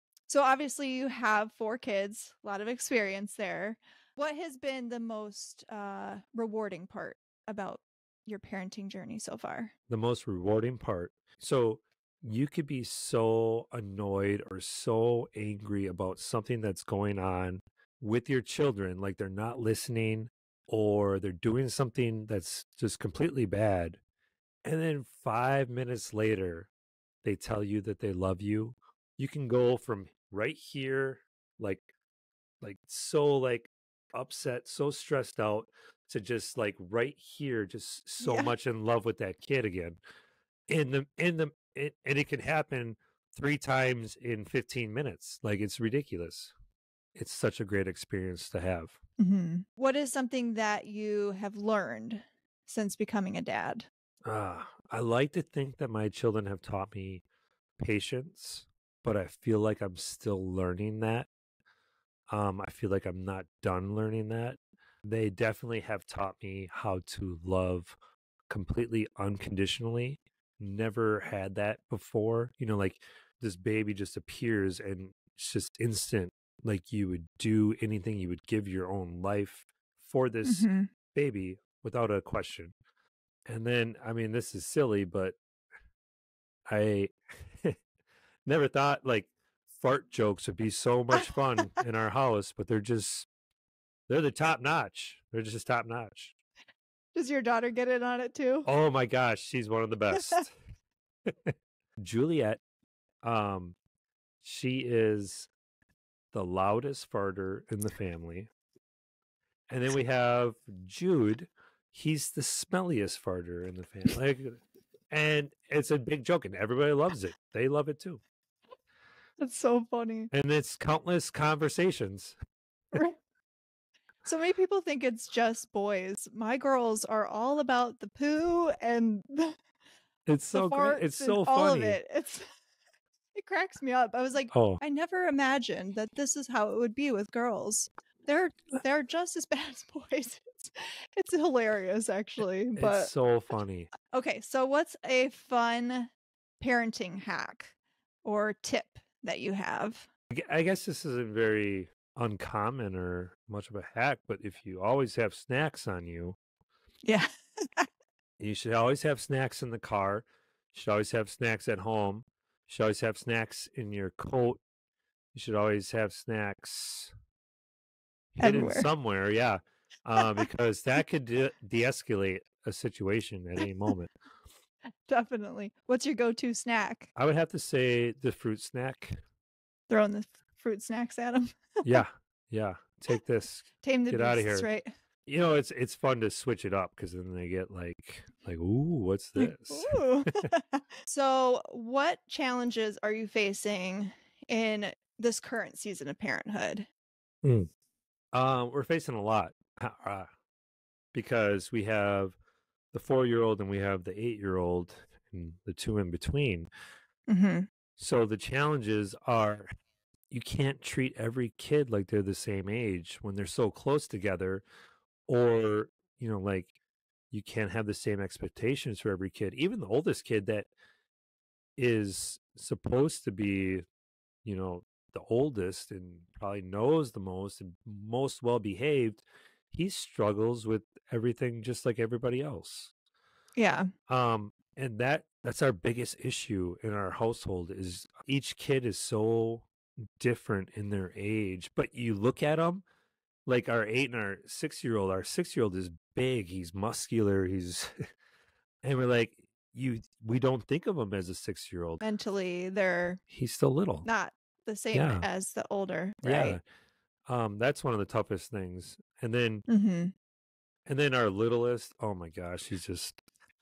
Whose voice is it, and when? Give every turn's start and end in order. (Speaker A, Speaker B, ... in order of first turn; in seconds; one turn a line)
Speaker A: 0.3-9.7
Speaker B: 9.9-24.0
Speaker B: 24.6-26.7
Speaker B: 27.2-31.8
Speaker B: 32.6-40.0
Speaker A: 38.2-38.5
Speaker B: 40.7-46.5
Speaker B: 47.1-49.0
Speaker A: 49.2-53.9
Speaker B: 54.2-57.2
Speaker B: 57.8-61.3
Speaker B: 62.3-68.0
Speaker B: 68.5-82.7
Speaker A: 80.4-80.9
Speaker B: 83.5-85.4
Speaker B: 86.7-87.8
Speaker B: 88.5-93.3
Speaker B: 94.1-96.3
Speaker A: 97.1-98.7
Speaker B: 98.6-100.5
Speaker B: 101.3-102.6
Speaker B: 103.2-103.8
Speaker B: 104.4-105.5
Speaker B: 106.3-108.5
Speaker B: 109.7-118.2
Speaker A: 119.4-120.3
Speaker B: 120.3-122.3
Speaker A: 124.2-129.6
Speaker B: 130.2-132.0
Speaker A: 130.5-132.5
Speaker A: 133.3-143.1
Speaker B: 134.5-134.8
Speaker B: 142.8-143.9
Speaker A: 144.1-150.1
Speaker B: 150.3-156.3
Speaker A: 157.0-157.9
Speaker B: 158.4-164.6
Speaker B: 165.3-167.1
Speaker B: 168.3-174.1
Speaker A: 168.4-168.9
Speaker A: 175.1-177.1
Speaker B: 177.1-179.2
Speaker A: 179.9-182.0
Speaker B: 181.8-184.7
Speaker A: 183.8-184.9
Speaker B: 185.2-190.5
Speaker A: 189.4-196.9
Speaker B: 197.4-197.7
Speaker B: 198.3-200.3
Speaker B: 201.1-202.3
Speaker B: 202.9-206.7
Speaker A: 207.3-207.7
Speaker B: 208.0-209.7
Speaker B: 210.3-214.6
Speaker B: 215.3-216.7
Speaker B: 217.3-220.7
Speaker B: 221.8-223.8
Speaker B: 224.4-232.9
Speaker A: 233.6-233.9
Speaker B: 234.1-242.8
Speaker B: 243.4-248.1
Speaker B: 248.8-252.0
Speaker A: 252.0-253.2
Speaker B: 253.3-254.1
Speaker A: 254.0-256.6
Speaker B: 254.9-255.2
Speaker B: 256.2-256.6
Speaker B: 257.3-259.6
Speaker A: 259.7-260.1
Speaker B: 260.9-263.2